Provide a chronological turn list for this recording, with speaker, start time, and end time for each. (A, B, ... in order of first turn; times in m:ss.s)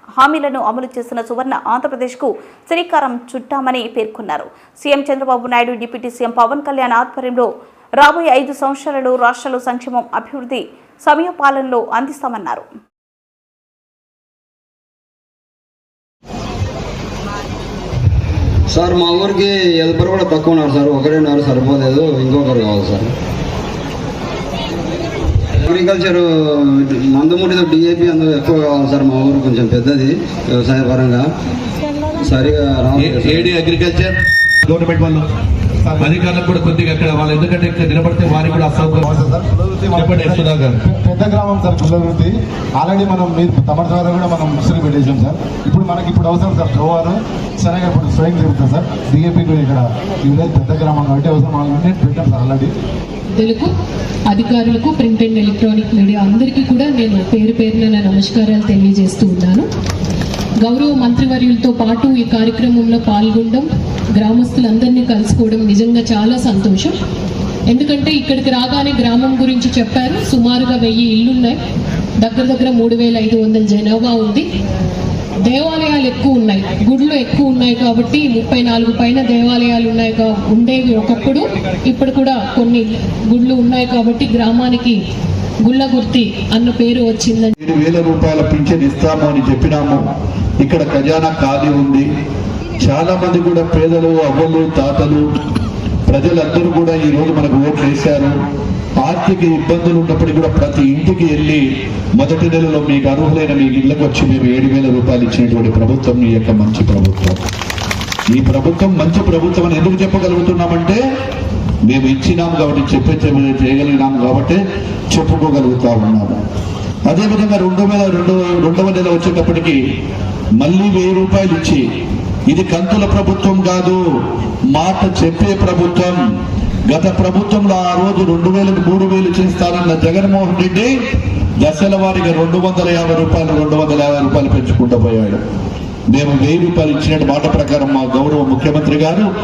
0:00.2-0:07.5 A
0:08.0-0:12.6 A
0:18.7-0:23.1 B
0:25.6-0:31.2 B
0:32.2-0:33.6 B
0:33.0-0:34.0 C
0:33.3-0:34.1 D
0:34.7-0:35.2 C
0:35.8-0:36.2 E
0:36.0-0:36.3 D
0:36.3-0:39.1 C
0:39.0-0:52.7 E
0:40.0-0:40.4 D
0:40.1-0:40.8 C
0:53.3-0:53.7 F
0:54.3-0:59.6 F
1:00.6-1:07.0 F
1:07.7-1:11.5 F
1:12.2-1:14.4 F
1:15.4-1:25.0 F
1:25.6-1:27.5 F
1:27.6-1:30.0 D
1:30.6-1:32.0 D
1:32.8-1:35.2 D
1:36.1-1:38.3 D
1:39.0-1:41.6 D
1:42.2-1:47.4 D
1:48.3-1:51.0 D
1:51.8-1:56.4 D
1:57.0-1:59.8 D
2:00.6-2:01.8 D
2:02.5-2:04.0 D
2:04.7-2:06.2 D
2:06.9-2:10.9 D
2:11.6-2:15.4 D
2:16.1-2:19.3 D